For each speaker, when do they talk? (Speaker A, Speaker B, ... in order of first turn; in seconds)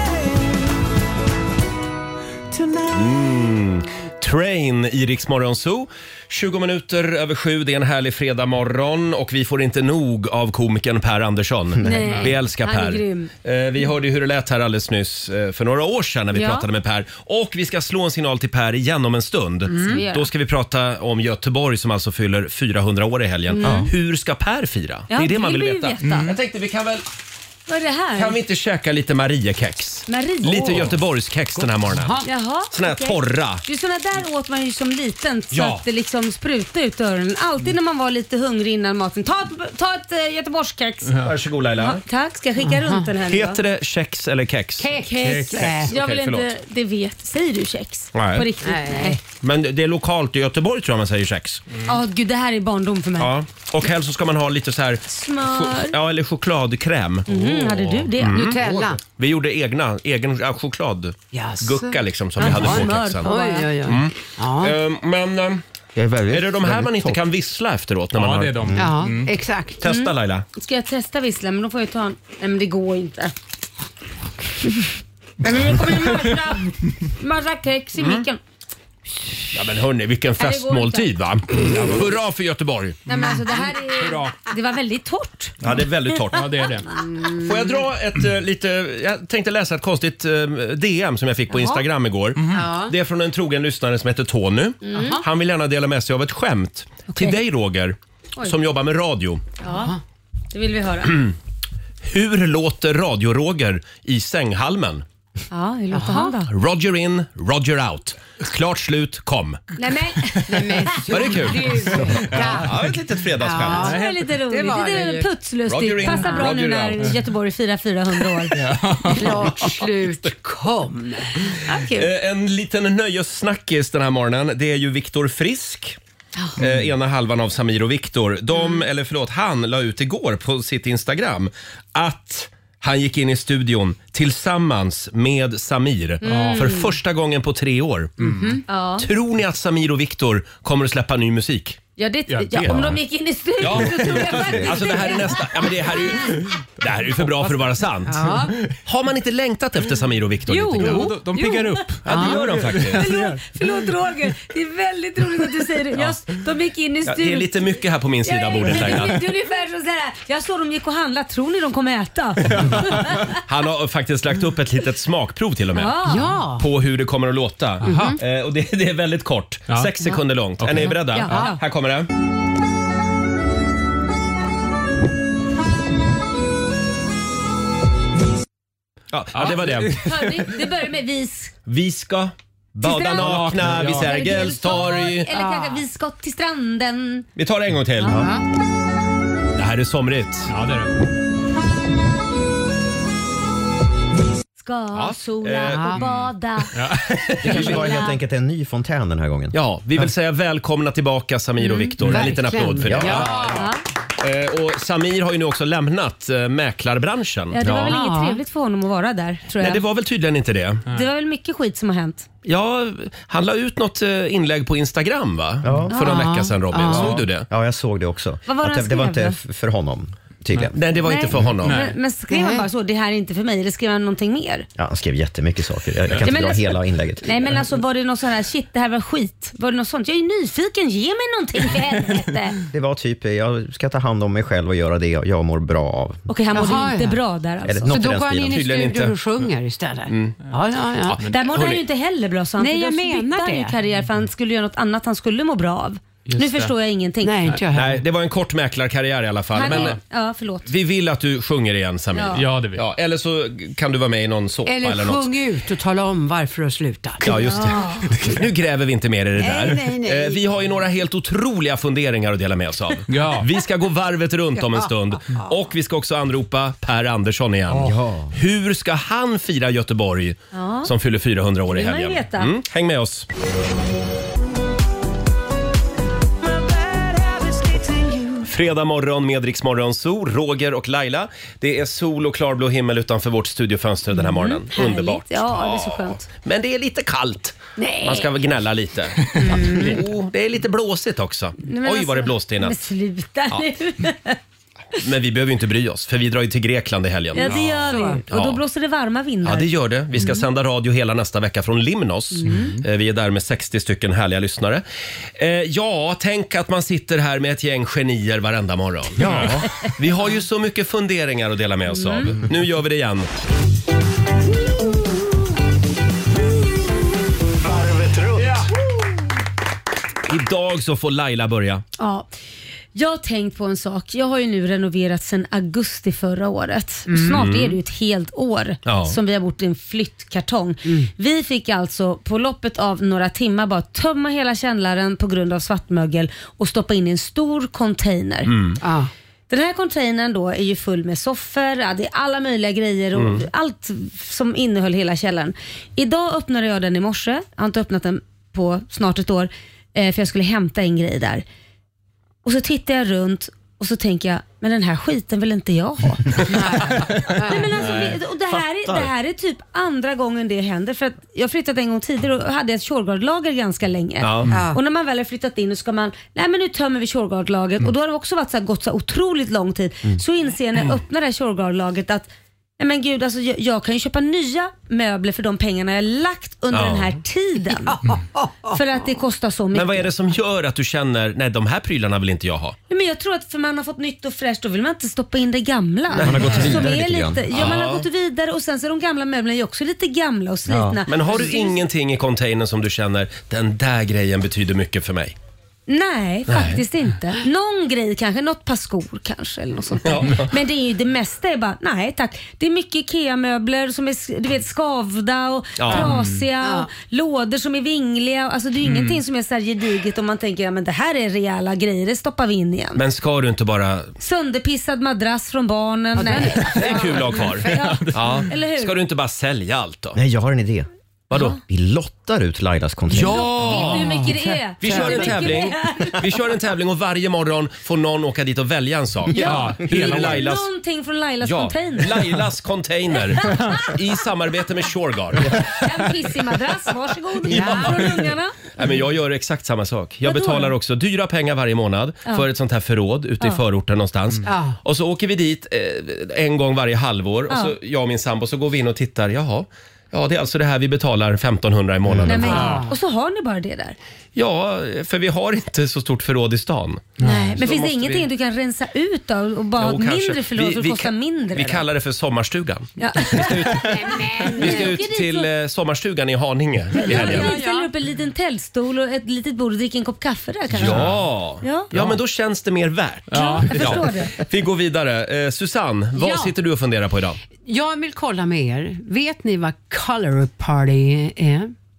Speaker A: 2.9-27.0, 28.2-33.6, 35.5-35.8, 41.2-42.0, 43.3-44.9, 45.5-46.5, 48.1-48.5, 49.4-51.6, 53.2-58.6, 59.2-63.3, 63.9-65.6, 66.3-68.6, 69.8-70.5, 78.0-78.2, 79.5-83.0, 85.6-86.5, 87.3-99.5, 101.1-101.3, 102.0-105.0, 106.5-109.6, 111.1-114.0, 115.7-117.2, 121.9-126.0, 126.6-138.2, 139.0-141.8, 143.6-148.2, 148.9-151.1, 152.1-153.1, 157.1-159.2, 163.5-165.9, 166.6-172.1, 179.1-180.1, 181.7-185.3, 187.4-188.2, 189.6-190.5, 194.9-196.3, 197.1-197.8, 199.5-203.7, 204.2-208.0, 209.6-210.8, 212.4-217.5, 220.8-221.8, 238.5-239.2, 240.1-240.4, 241.1-241.8, 247.7-250.0, 250.7-255.3, 257.2-273.3, 278.4-292.8, 295.0-297.7, 298.3-298.6, 299.4-304.8, 305.4-313.3, 320.3-321.8, 327.4-327.8, 328.9-329.2, 338.5-338.8, 343.2-343.4, 364.2-364.5, 376.7-377.1, 379.7-382.8, 386.1-386.9, 387.5-388.1, 391.1-395.4, 396.5-396.8, 400.0-400.5, 405.8-406.1, 412.9-414.1, 416.8-420.2, 421.3-421.6, 423.1-424.1, 424.8-430.7, 431.4-435.7, 437.5-452.8, 454.4-458.3, 459.8-467.6, 470.7-477.4
Speaker B: 11.8-13.3, 16.3-16.7, 19.9-20.3, 23.5-23.9, 25.1-26.3, 27.7-28.4, 30.1-30.9, 32.2-41.2, 41.8-43.6, 45.1-49.2, 51.9-53.3, 55.1-55.9, 57.3-58.5, 62.4-63.7, 69.8-73.3, 75.4-78.4, 80.4-81.1, 83.1-85.6, 91.5-91.8, 94.9-95.2, 99.6-100.0, 100.5-101.2, 105.5-106.5, 109.8-110.8, 113.8-118.6, 121.6-122.1, 128.5-128.8, 136.2-136.9, 138.7-139.1, 142.0-145.4, 150.9-152.2, 152.9-163.3, 165.7-166.3, 170.8-171.6, 179.9-181.5, 182.8-187.3, 194.6-196.7, 197.5-198.2, 201.6-201.9, 203.6-203.8, 207.5-209.8, 210.9-212.3, 215.9-216.2, 218.5-219.4, 221.0-224.7, 226.2-232.6, 236.3-237.9, 241.3-247.6, 249.5-250.7, 252.1-252.4, 257.3-258.1, 270.5-270.9, 271.7-272.5, 284.3-286.3, 289.4-289.9, 291.6-294.4, 297.3-300.4, 311.9-312.3, 322.0-322.3, 322.9-338.5, 339.5-351.4, 352.4-378.0, 378.7-380.1, 382.9-391.8, 395.9-413.0, 414.2-418.9, 421.3-421.6, 423.7-426.1, 429.3-432.3, 433.5-433.9, 435.5-438.5, 440.2-440.7, 452.2-454.0, 457.2-461.9, 463.0-463.9, 464.6-465.5, 467.0-471.9, 473.3-474.3
Speaker C: 11.9-12.3, 26.0-26.4, 45.1-45.7, 68.1-69.3, 83.1-84.3, 86.3-87.0, 92.4-92.6, 112.1-112.7, 113.7-114.2, 118.5-120.1, 126.6-126.9, 136.2-136.8, 138.2-138.6, 142.3-142.9, 147.2-147.8, 150.5-153.4, 162.5-163.1, 167.8-168.2, 170.6-171.5, 179.3-180.5, 183.2-184.3, 190.5-190.9, 196.7-197.2, 221.6-221.9, 246.3-246.7, 249.7-250.0, 252.3-252.8, 263.1-263.5, 309.2-309.6, 405.9-406.4, 408.8-409.2, 429.3-430.5, 433.5-433.9, 452.3-452.9, 457.2-457.5, 470.8-471.2, 473.3-474.0
Speaker D: 19.7-20.0, 31.6-32.3, 42.6-43.1, 44.8-45.9, 48.6-49.2, 58.3-59.0, 61.3-64.8, 68.8-69.8, 87.1-87.8, 92.5-92.9, 94.9-95.2, 99.6-100.0, 105.9-106.3, 110.5-112.8, 113.4-115.3, 116.0-116.5, 119.1-121.6, 138.2-138.6, 148.1-148.6, 150.7-151.2, 152.1-152.4, 166.1-166.7, 167.8-168.2, 171.3-171.6, 185.3-185.8, 188.1-188.4, 195.7-196.0, 202.0-203.7, 207.7-208.4, 215.9-217.2, 222.3-222.7, 236.5-237.2, 237.9-241.2, 242.6-243.8, 247.2-248.0, 254.7-257.3, 259.4-260.4, 264.7-265.5, 287.8-288.3, 289.4-290.0, 297.4-298.2, 302.4-302.8, 327.1-327.4, 330.9-331.1, 338.8-339.1, 356.5-357.7, 364.5-364.8, 377.9-378.8, 405.9-406.9, 416.1-418.1, 423.8-425.4, 437.5-438.1, 444.5-444.8, 452.4-452.9, 463.8-464.9, 466.9-467.9, 476.2-476.5, 477.6-481.7
Speaker E: 66.0-67.2, 197.4-199.6, 202.9-203.4, 215.6-215.9, 216.8-220.8, 224.8-227.5, 232.7-236.3, 237.7-238.6, 267.7-268.3, 309.2-309.6, 358.5-359.1, 386.2-387.5, 390.7-391.0, 420.1-420.9, 421.6-424.0